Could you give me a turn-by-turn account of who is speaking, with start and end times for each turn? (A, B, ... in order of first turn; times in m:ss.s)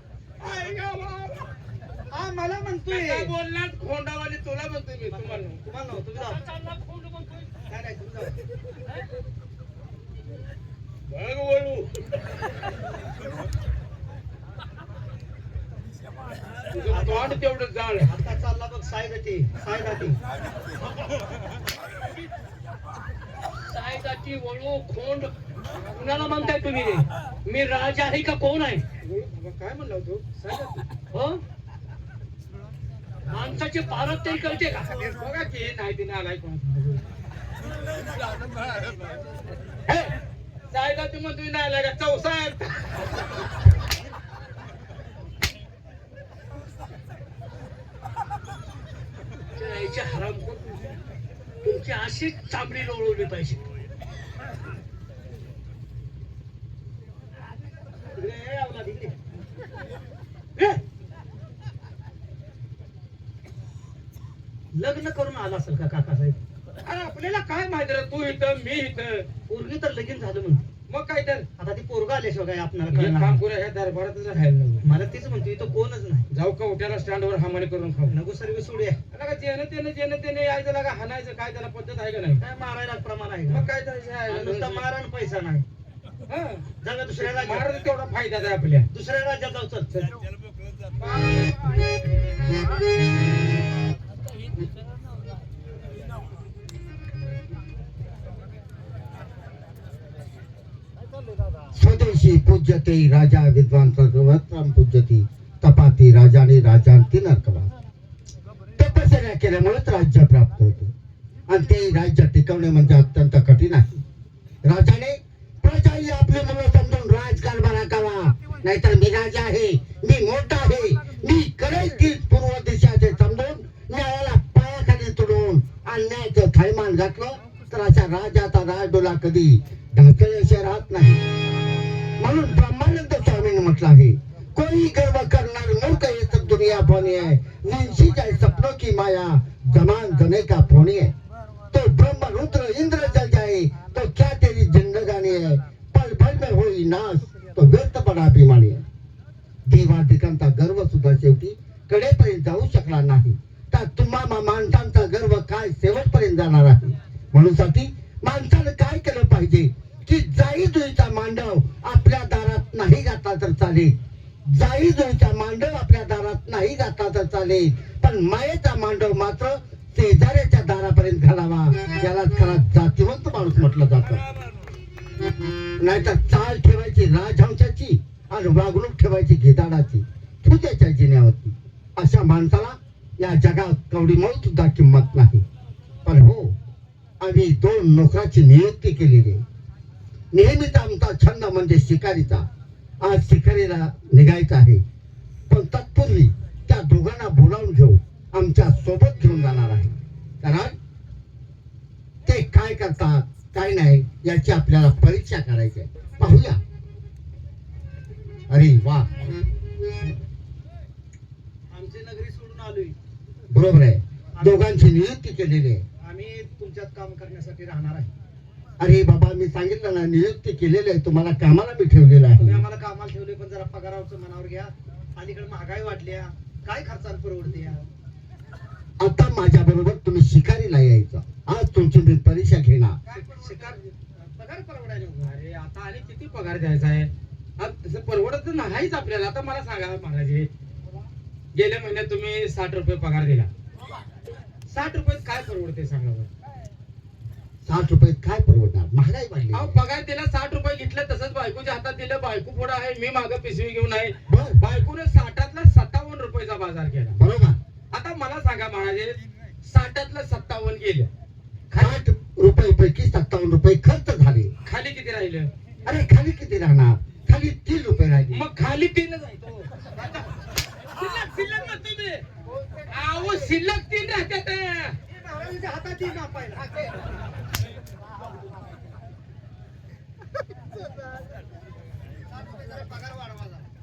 0:00.4-0:01.5 A
0:02.1-0:03.3 B
0:02.9-0:05.6 A
0:05.1-0:06.4 B
0:06.2-0:07.5 C
0:07.7-0:08.4 B
0:11.1-0:12.0 A
0:16.7-0:18.1 A
0:16.9-0:17.4 B
0:18.0-0:20.2 B
0:23.6-0:25.3 C
0:25.9-0:28.8 C
0:29.0-0:30.9 A
0:31.1-0:31.4 C
0:33.3-0:34.9 C
0:35.0-0:37.0 A
0:40.7-0:42.8 A
0:49.6-0:50.9 C
0:51.6-0:53.6 C
0:58.2-0:59.1 B
1:04.7-1:06.4 B
1:06.8-1:09.3 A
1:09.5-1:10.6 B
1:10.9-1:11.5 A
1:11.6-1:13.4 B
1:12.9-1:14.8 A
1:14.8-1:16.3 B
1:16.3-1:18.2 A
1:18.1-1:19.0 B
1:19.1-1:22.4 A
1:22.4-1:23.7 B
1:23.5-1:24.9 A
1:24.3-1:25.6 B
1:26.3-1:26.6 A
1:26.8-1:27.7 B
1:27.2-1:28.9 A
1:28.9-1:29.9 B
1:31.0-1:31.5 A
1:41.7-1:47.7 D
1:48.8-1:50.9 D
1:51.5-1:54.0 D
1:54.6-2:11.2 D
2:12.2-2:21.1 D
2:21.7-2:28.8 D
2:29.7-2:54.2 D
2:55.8-3:05.4 D
3:06.0-3:06.6 D
3:07.2-3:09.4 D
3:10.3-3:12.5 D
3:13.0-3:14.8 D
3:15.5-3:20.8 D
3:22.3-3:26.6 D
3:28.5-3:29.3 D
3:31.7-3:33.0 B
3:33.5-3:35.8 D
3:34.4-3:34.7 B
3:36.0-3:38.1 B
3:38.8-3:42.6 D
3:42.4-3:47.9 B
3:49.0-3:53.0 D
3:53.1-3:55.4 B
3:53.1-3:53.8 A
3:55.2-4:00.5 A
4:01.5-4:03.5 A
4:04.7-4:06.3 A
4:07.6-4:09.8 D
4:09.5-4:17.2 A
4:14.3-4:14.6 D
4:17.2-4:17.6 D
4:17.9-4:21.1 A
4:21.7-4:24.5 D
4:24.7-4:25.5 A
4:25.8-4:28.5 D
4:28.3-4:29.7 A
4:30.0-4:30.3 B
4:30.9-4:32.2 A
4:32.9-4:35.0 A
4:35.1-4:37.0 B
4:42.3-4:43.7 B